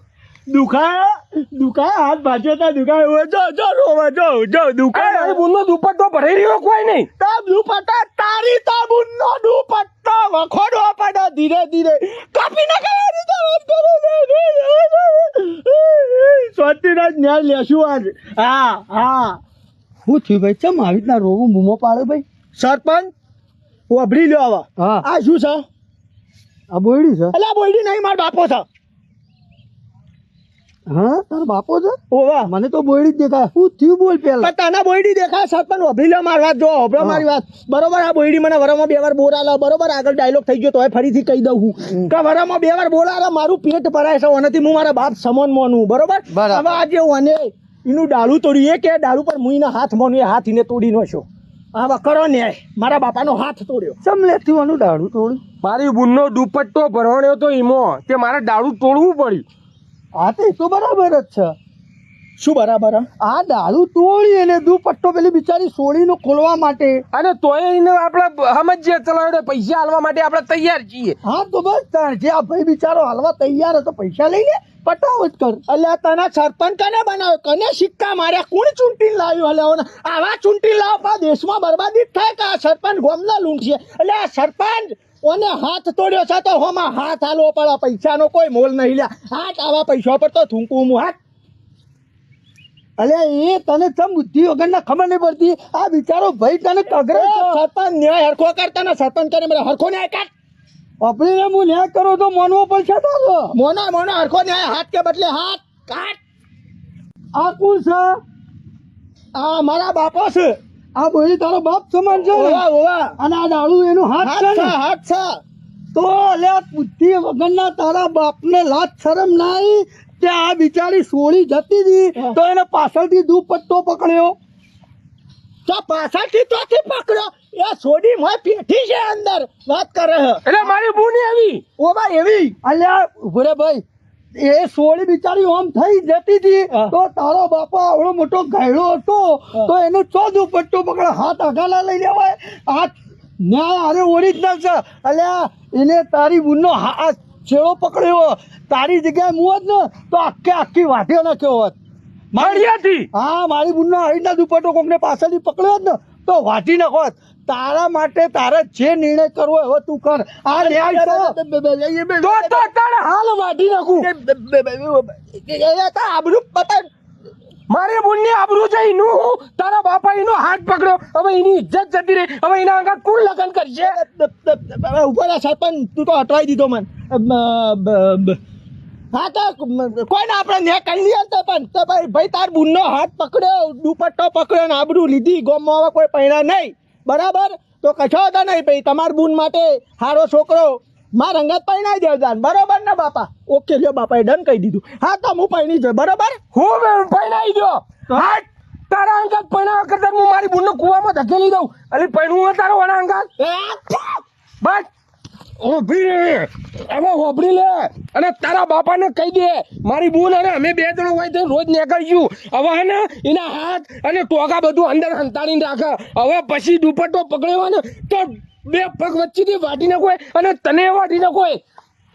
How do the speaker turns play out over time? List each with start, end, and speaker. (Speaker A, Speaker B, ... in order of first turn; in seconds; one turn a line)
Speaker A: 0.5-5.4
Speaker B: 4.9-7.1
Speaker A: 7.2-19.4
Speaker C: 20.1-22.2
Speaker A: 22.6-23.1
Speaker A: 23.9-25.6
Speaker C: 24.8-25.1
Speaker C: 26.7-27.3
Speaker A: 27.3-28.6
Speaker C: 30.9-34.5
Speaker A: 32.1-32.5
Speaker A: 34.4-54.0
Speaker C: 37.0-37.2
Speaker C: 46.3-46.7
Speaker C: 54.0-55.4
Speaker B: 55.6-59.4
Speaker C: 60.1-61.5
Speaker A: 62.4-63.0
Speaker C: 63.2-67.0
Speaker B: 67.1-71.2
Speaker C: 71.2-75.6
Speaker A: 75.7-91.2
Speaker C: 93.0-97.6
Speaker A: 97.1-100.3
Speaker C: 101.0-103.5
Speaker A: 103.5-106.2
Speaker C: 107.3-108.2
Speaker A: 109.3-110.5
Speaker C: 111.0-112.7
Speaker A: 112.1-113.1
Speaker C: 113.2-114.8
Speaker A: 114.2-115.4
Speaker C: 115.9-124.3
Speaker A: 125.7-130.4
Speaker B: 130.4-131.6
Speaker A: 131.8-132.6
Speaker C: 132.6-133.8
Speaker C: 134.4-151.8
Speaker C: 152.3-162.5
Speaker B: 152.4-153.1
Speaker A: 160.6-162.6
Speaker B: 162.2-164.1
Speaker A: 164.0-166.9
Speaker B: 167.7-174.0
Speaker A: 173.8-178.4
Speaker A: 179.1-196.4
Speaker B: 196.5-203.3
Speaker A: 203.4-204.2
Speaker B: 204.6-204.9
Speaker B: 205.6-221.6